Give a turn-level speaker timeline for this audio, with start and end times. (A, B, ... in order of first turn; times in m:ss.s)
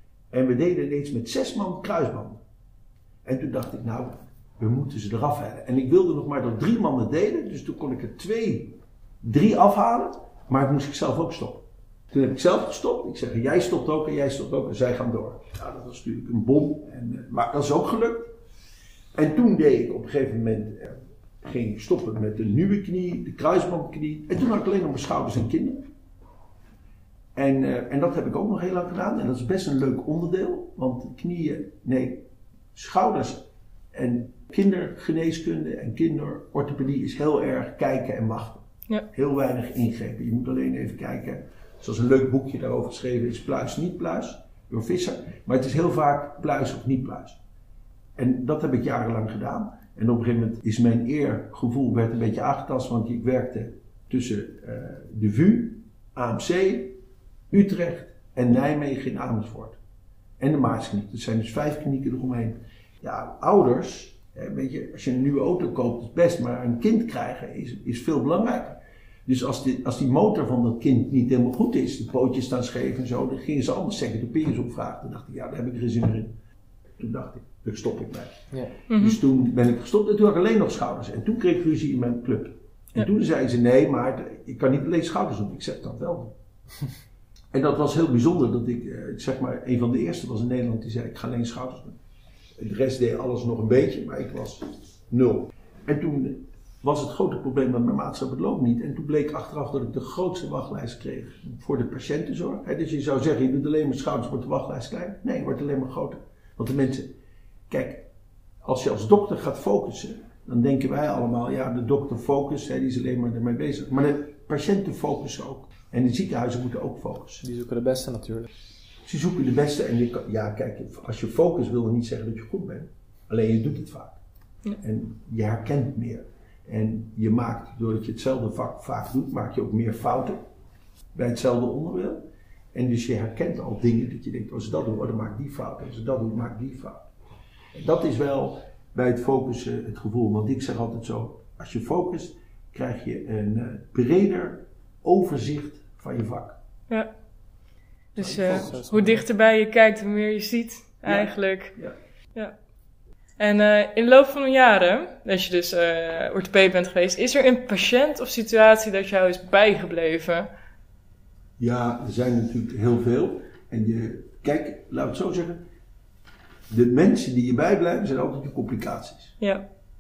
0:00.3-0:02.4 A
0:03.2-0:18.3 A
0:19.2-0:25.9 A
0:27.4-0:47.4 A
0:48.2-0:57.0 A
0:57.5-0:59.8 A
1:00.4-1:16.4 A
1:17.0-1:26.3 A
1:18.9-1:19.2 B
1:27.5-1:32.0 A
1:32.6-1:47.1 A
1:47.7-1:48.1 A
1:48.6-1:57.4 A
1:57.4-1:58.5 C
1:59.1-2:04.2 A
2:04.8-2:10.4 A
2:11.2-2:12.2 A
2:12.7-2:17.1 A
2:17.8-2:26.6 A
2:28.2-2:31.8 B
2:28.2-2:28.9 A
2:28.4-2:29.2 C
2:31.0-2:32.0 A
2:33.4-2:40.5 B
2:41.6-2:45.6 A
2:46.7-2:49.4 A